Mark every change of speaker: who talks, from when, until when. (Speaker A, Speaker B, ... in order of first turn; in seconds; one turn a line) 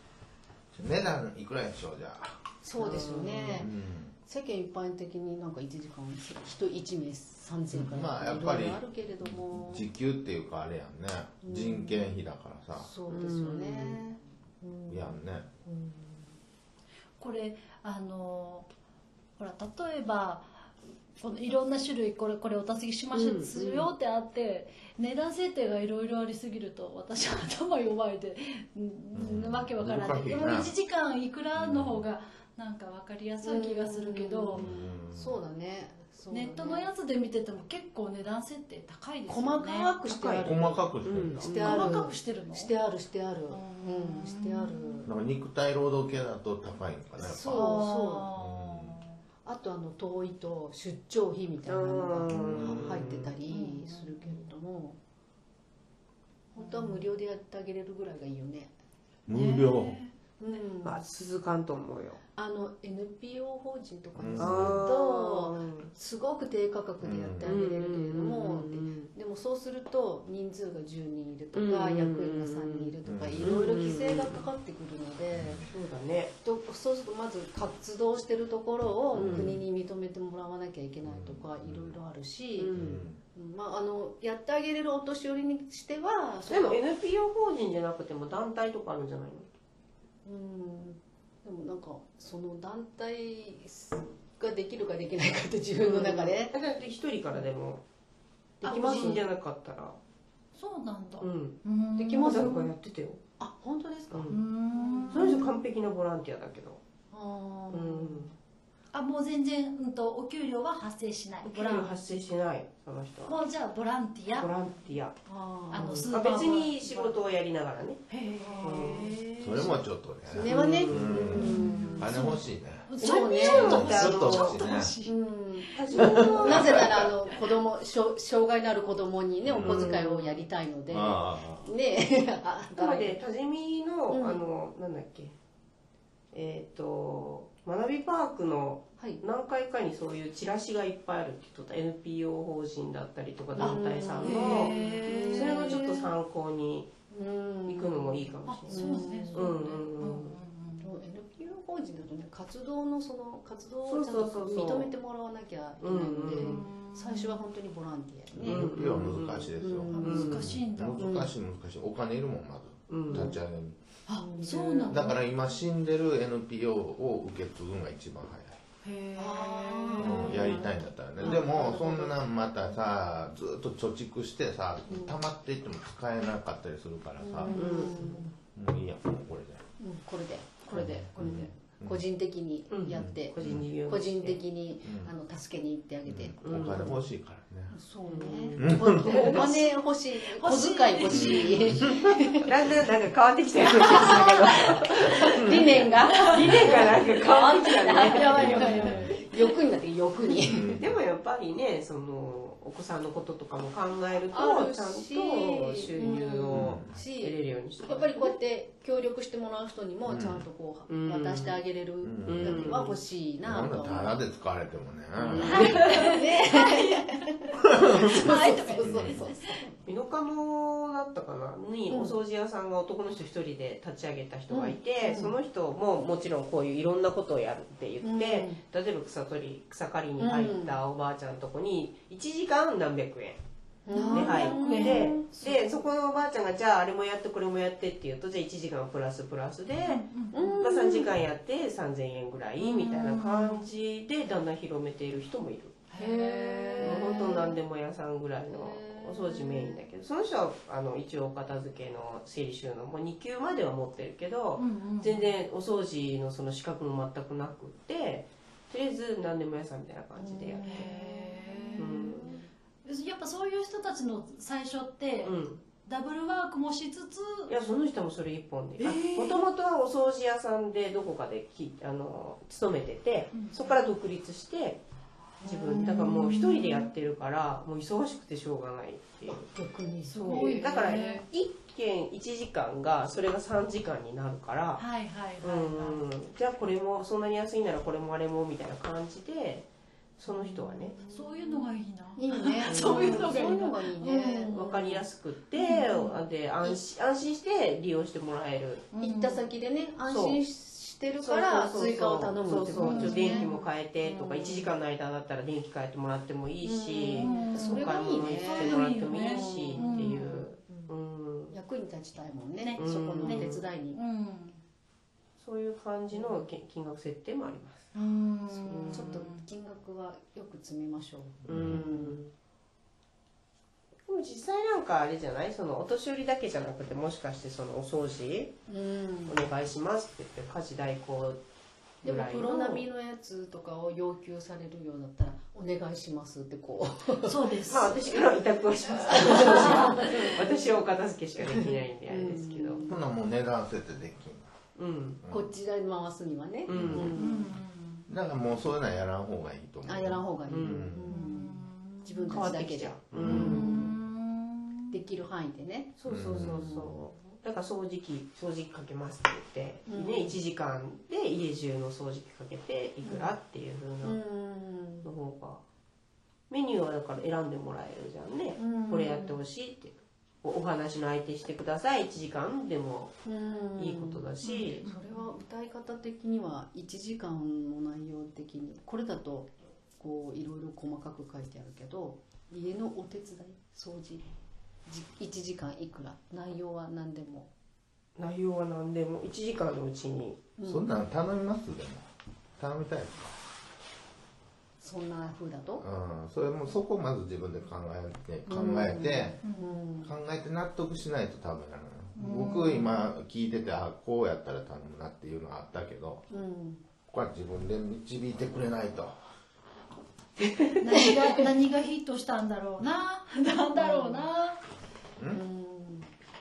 Speaker A: 0.7-2.4
Speaker B: 2.6-3.7
Speaker C: 2.8-3.7
Speaker A: 3.6-4.2
Speaker B: 4.2-9.9
Speaker A: 7.8-12.9
Speaker B: 11.4-12.2
Speaker B: 12.8-16.3
Speaker C: 13.1-14.0
Speaker A: 14.9-15.5
Speaker D: 17.2-18.7
Speaker D: 19.4-34.6
Speaker C: 23.1-23.9
Speaker A: 29.1-30.7
Speaker A: 31.6-32.1
Speaker B: 33.4-36.9
Speaker A: 34.5-35.4
Speaker D: 36.3-40.0
Speaker B: 39.3-45.1
Speaker C: 40.0-41.5
Speaker A: 40.4-41.9
Speaker D: 41.5-42.8
Speaker D: 43.5-45.1
Speaker A: 45.1-47.8
Speaker B: 47.2-48.3
Speaker D: 47.4-49.2
Speaker A: 48.3-49.0
Speaker B: 49.4-55.0
Speaker C: 51.7-53.3
Speaker A: 52.3-53.0
Speaker D: 53.5-54.5
Speaker B: 56.5-58.7
Speaker D: 56.6-57.1
Speaker A: 59.3-60.0
Speaker D: 59.3-60.6
Speaker B: 60.4-61.0
Speaker C: 60.8-62.2
Speaker B: 62.3-75.6
Speaker A: 64.2-64.8
Speaker C: 64.4-65.9
Speaker A: 67.0-67.6
Speaker C: 67.4-69.1
Speaker C: 71.5-74.5
Speaker A: 73.0-73.6
Speaker A: 75.3-75.7
Speaker C: 75.7-76.3
Speaker B: 76.4-82.7
Speaker A: 79.1-79.6
Speaker C: 79.1-79.6
Speaker A: 81.0-82.0
Speaker C: 82.6-83.1
Speaker A: 82.7-83.2
Speaker B: 83.3-86.8
Speaker C: 86.5-89.5
Speaker B: 90.2-96.5
Speaker C: 95.8-97.8
Speaker B: 98.6-99.2
Speaker C: 98.6-100.0
Speaker D: 100.5-102.7
Speaker C: 101.2-101.6
Speaker B: 101.9-102.6
Speaker C: 102.2-103.2
Speaker B: 103.4-105.5
Speaker C: 104.1-104.4
Speaker D: 104.3-105.3
Speaker C: 105.1-106.8
Speaker B: 107.1-108.3
Speaker C: 107.7-108.3
Speaker D: 108.9-111.9
Speaker C: 111.4-113.4
Speaker D: 113.2-114.5
Speaker C: 114.3-115.2
Speaker B: 115.3-116.1
Speaker D: 115.7-116.8
Speaker C: 115.8-118.0
Speaker B: 116.9-117.2
Speaker D: 118.1-119.2
Speaker B: 118.4-119.1
Speaker C: 118.6-119.6
Speaker A: 119.4-122.9
Speaker B: 120.3-122.2
Speaker C: 120.4-121.3
Speaker D: 121.3-126.7
Speaker B: 123.0-123.8
Speaker C: 123.0-124.6
Speaker A: 123.5-125.0
Speaker B: 125.0-133.2
Speaker C: 125.8-127.0
Speaker A: 126.0-127.1
Speaker A: 129.4-130.0
Speaker C: 129.6-130.5
Speaker A: 130.9-131.7
Speaker C: 132.8-135.3
Speaker B: 134.1-134.5
Speaker C: 136.3-146.9
Speaker B: 143.6-146.1
Speaker D: 143.6-145.9
Speaker B: 147.1-149.5
Speaker C: 147.7-150.4
Speaker D: 148.5-150.9
Speaker B: 150.8-158.8
Speaker C: 153.8-154.9
Speaker C: 155.8-156.7
Speaker D: 156.4-157.4
Speaker A: 158.3-163.8
Speaker C: 158.4-160.5
Speaker B: 159.6-160.4
Speaker D: 160.0-161.2
Speaker C: 162.9-163.4
Speaker B: 163.1-163.4
Speaker D: 164.1-165.2
Speaker B: 164.2-164.9
Speaker A: 164.8-168.6
Speaker D: 168.8-170.5
Speaker B: 169.2-172.2
Speaker A: 170.0-177.8
Speaker C: 171.2-172.0
Speaker B: 174.9-175.2
Speaker B: 177.2-178.4
Speaker C: 177.5-178.2
Speaker A: 178.5-179.7
Speaker B: 179.8-187.1
Speaker A: 180.7-182.0
Speaker C: 182.7-184.4
Speaker A: 182.9-183.7
Speaker A: 184.8-185.1
Speaker A: 186.1-187.8
Speaker C: 186.4-186.9
Speaker B: 187.7-192.5
Speaker C: 188.0-189.5
Speaker A: 188.6-189.2
Speaker D: 189.2-191.8
Speaker A: 191.1-191.9
Speaker C: 192.5-198.9
Speaker B: 193.8-200.8
Speaker A: 195.3-195.8
Speaker D: 197.9-199.1
Speaker A: 198.3-199.1
Speaker A: 200.4-201.0
Speaker C: 200.8-208.2
Speaker B: 204.3-214.2
Speaker A: 206.5-206.9
Speaker A: 210.1-210.5
Speaker C: 210.9-211.6
Speaker A: 212.0-212.8
Speaker C: 212.3-213.0
Speaker A: 213.4-215.9
Speaker C: 215.2-215.7
Speaker B: 215.2-219.8
Speaker D: 215.4-217.2
Speaker A: 217.8-219.2
Speaker D: 217.9-219.6
Speaker C: 219.8-233.4
Speaker B: 221.9-222.2
Speaker B: 224.5-225.3
Speaker B: 228.0-228.6
Speaker B: 230.2-230.8
Speaker B: 233.8-235.9
Speaker D: 233.9-235.2
Speaker C: 234.1-245.8
Speaker D: 239.8-240.5
Speaker B: 240.3-241.2
Speaker D: 242.6-243.7
Speaker D: 245.9-247.3
Speaker B: 246.0-247.6
Speaker C: 246.8-260.9
Speaker B: 248.5-249.9
Speaker D: 254.6-255.3
Speaker B: 260.2-262.4
Speaker D: 260.6-262.2
Speaker C: 261.8-262.5
Speaker D: 262.9-267.5
Speaker C: 265.2-265.6
Speaker C: 267.5-274.8
Speaker D: 268.8-269.4
Speaker D: 273.3-273.7
Speaker B: 275.4-275.9
Speaker C: 275.4-279.4
Speaker D: 275.7-276.9
Speaker B: 279.3-280.9
Speaker D: 280.1-281.2
Speaker C: 280.1-284.9
Speaker D: 284.8-286.0
Speaker C: 285.4-291.4
Speaker D: 290.3-294.5
Speaker B: 292.2-295.0
Speaker C: 292.6-293.6
Speaker C: 294.5-298.9
Speaker D: 295.6-296.2
Speaker D: 298.9-299.4
Speaker B: 299.0-303.5
Speaker C: 300.1-300.4
Speaker C: 301.1-311.5
Speaker D: 302.7-304.7
Speaker B: 306.6-309.9
Speaker D: 307.1-310.5
Speaker B: 310.7-310.9
Speaker B: 311.5-314.0
Speaker D: 312.6-314.6
Speaker C: 312.8-313.6
Speaker C: 315.4-317.9
Speaker B: 316.1-316.4
Speaker D: 317.9-319.4
Speaker B: 318.5-322.2
Speaker C: 318.7-319.3
Speaker A: 321.4-321.9
Speaker C: 321.5-322.3
Speaker C: 324.1-328.6
Speaker B: 328.7-329.4
Speaker C: 329.2-331.4
Speaker C: 332.0-332.9
Speaker B: 332.0-338.4
Speaker D: 337.2-338.0
Speaker C: 337.7-342.9
Speaker B: 339.1-340.7
Speaker D: 339.5-340.2
Speaker B: 341.5-343.0
Speaker A: 342.9-344.5
Speaker C: 344.8-345.2
Speaker A: 345.2-345.5
Speaker B: 345.3-347.3
Speaker C: 346.6-347.5
Speaker A: 346.7-347.1
Speaker D: 347.1-348.1
Speaker A: 348.1-351.0
Speaker B: 349.9-353.9
Speaker C: 350.5-351.0
Speaker D: 351.1-352.5
Speaker C: 352.3-353.8
Speaker A: 353.1-353.7
Speaker D: 353.3-355.0
Speaker B: 354.9-357.0
Speaker C: 356.0-364.2
Speaker A: 356.1-356.7
Speaker B: 359.9-360.4
Speaker B: 363.0-363.4
Speaker B: 364.0-365.1
Speaker C: 365.0-365.6
Speaker C: 366.5-373.2
Speaker B: 368.6-369.4
Speaker B: 373.2-384.3
Speaker C: 373.8-374.8
Speaker D: 374.4-375.3
Speaker B: 384.9-387.5
Speaker C: 388.1-390.4
Speaker B: 390.6-390.9
Speaker A: 390.6-392.1
Speaker A: 392.6-393.3
Speaker B: 394.8-395.8
Speaker A: 395.8-399.4
Speaker B: 398.5-400.1
Speaker D: 399.4-399.8
Speaker A: 400.0-406.2
Speaker D: 402.2-403.0
Speaker B: 406.3-406.8
Speaker A: 407.1-409.2
Speaker D: 410.7-414.6
Speaker B: 410.9-411.3
Speaker B: 413.8-414.3
Speaker B: 415.3-416.1